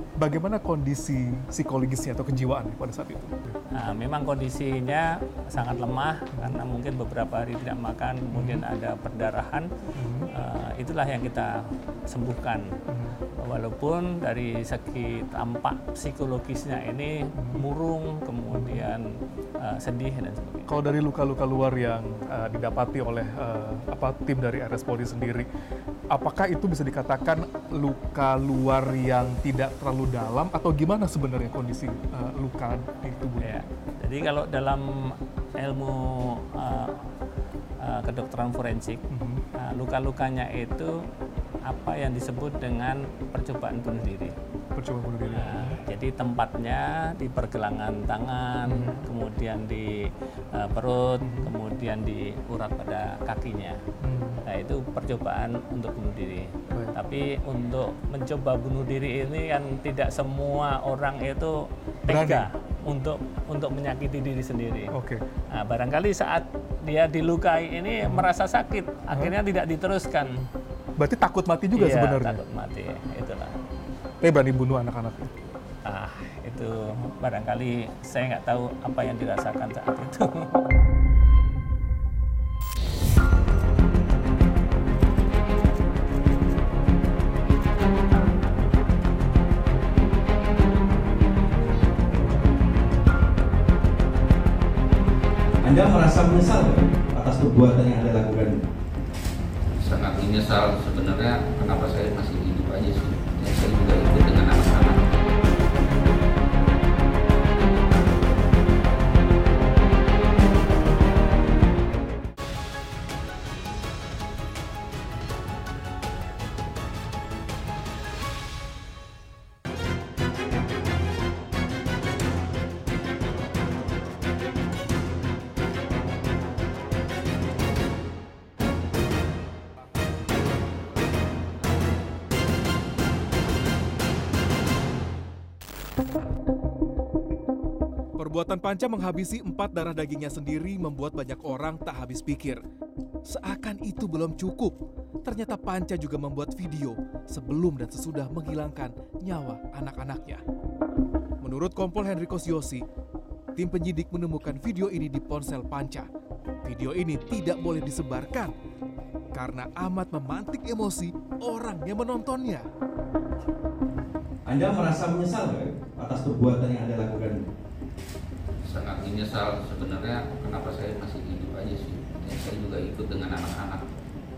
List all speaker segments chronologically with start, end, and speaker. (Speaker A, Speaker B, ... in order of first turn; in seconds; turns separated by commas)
Speaker A: 0.2-3.5, Speaker B: 3.7-9.7, Speaker A: 6.3-6.6, Speaker A: 8.3-8.7, Speaker A: 9.9-10.3, Speaker B: 10.3-12.7, Speaker A: 12.9-13.2, Speaker B: 13.4-19.1, Speaker A: 17.4-17.6, Speaker A: 18.5-18.9, Speaker B: 19.6-20.7, Speaker A: 20.7-25.5, Speaker A: 26.1-33.6, Speaker B: 33.4-37.0, Speaker B: 37.8-39.0, Speaker A: 39.1-39.4, Speaker B: 39.6-41.0, Speaker B: 41.6-44.3, Speaker A: 44.8-45.8, Speaker B: 45.3-53.8, Speaker A: 48.6-49.0, Speaker A: 51.2-51.5, Speaker A: 54.0-54.4, Speaker B: 54.5-65.0, Speaker A: 62.1-62.5, Speaker A: 64.9-65.2, Speaker B: 65.5-70.4, Speaker A: 71.0-72.4, Speaker B: 71.7-73.5, Speaker A: 74.2-75.3, Speaker B: 75.8-80.6, Speaker C: 95.6-98.5, Speaker D: 99.8-105.1, Speaker E: 138.2-142.6, Speaker E: 143.3-150.4, Speaker E: 151.4-152.8, Speaker E: 153.6-156.1, Speaker E: 156.6-158.5, Speaker E: 159.3-162.7, Speaker C: 164.5-167.4, Speaker D: 168.7-173.9